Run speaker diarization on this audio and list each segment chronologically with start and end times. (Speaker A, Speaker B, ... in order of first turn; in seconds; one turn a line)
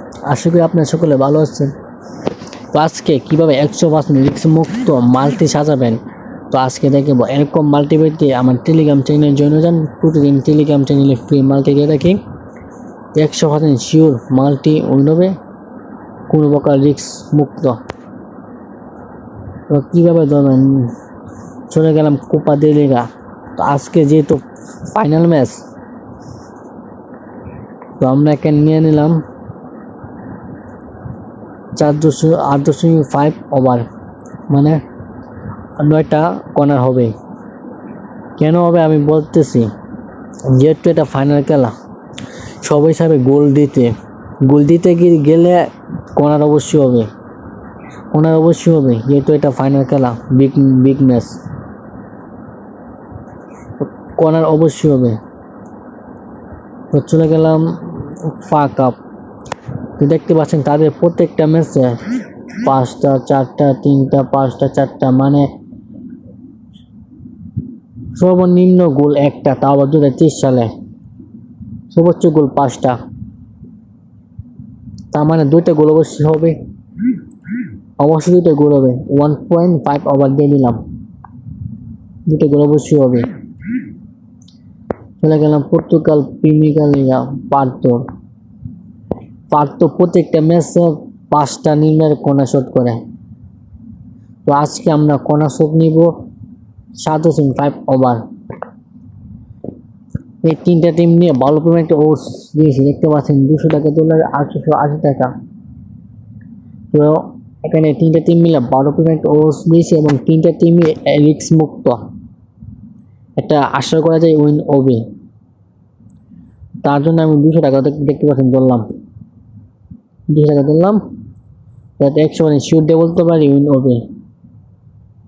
Speaker A: 0.3-1.7
Speaker A: 2.7-12.2
Speaker A: 13.1-15.3
Speaker A: 16.3-17.8
Speaker A: 19.7-20.9
Speaker A: 21.7-25.6
Speaker A: 28.0-29.2
Speaker A: 31.8-33.8
Speaker A: 34.5-34.8
Speaker A: 35.8-37.1
Speaker A: 38.4-39.7
Speaker A: 40.5-41.7
Speaker A: 42.6-43.9
Speaker A: 44.4-47.1
Speaker A: 48.1-51.4
Speaker A: 53.8-55.2
Speaker A: 56.9-59.0
Speaker A: 60.0-62.0
Speaker A: 62.6-65.5
Speaker A: 68.1-70.7
Speaker A: 71.9-73.0
Speaker A: 75.1-76.6
Speaker A: 78.0-80.8
Speaker A: 82.3-83.3
Speaker A: 85.2-88.1
Speaker A: 89.5-93.0
Speaker A: 94.5-96.1
Speaker A: 97.0-98.2
Speaker A: 100.4-105.3
Speaker A: 106.9-112.0
Speaker A: 113.4-115.0
Speaker A: 116.8-118.9
Speaker A: 120.3-121.0
Speaker A: 122.0-124.1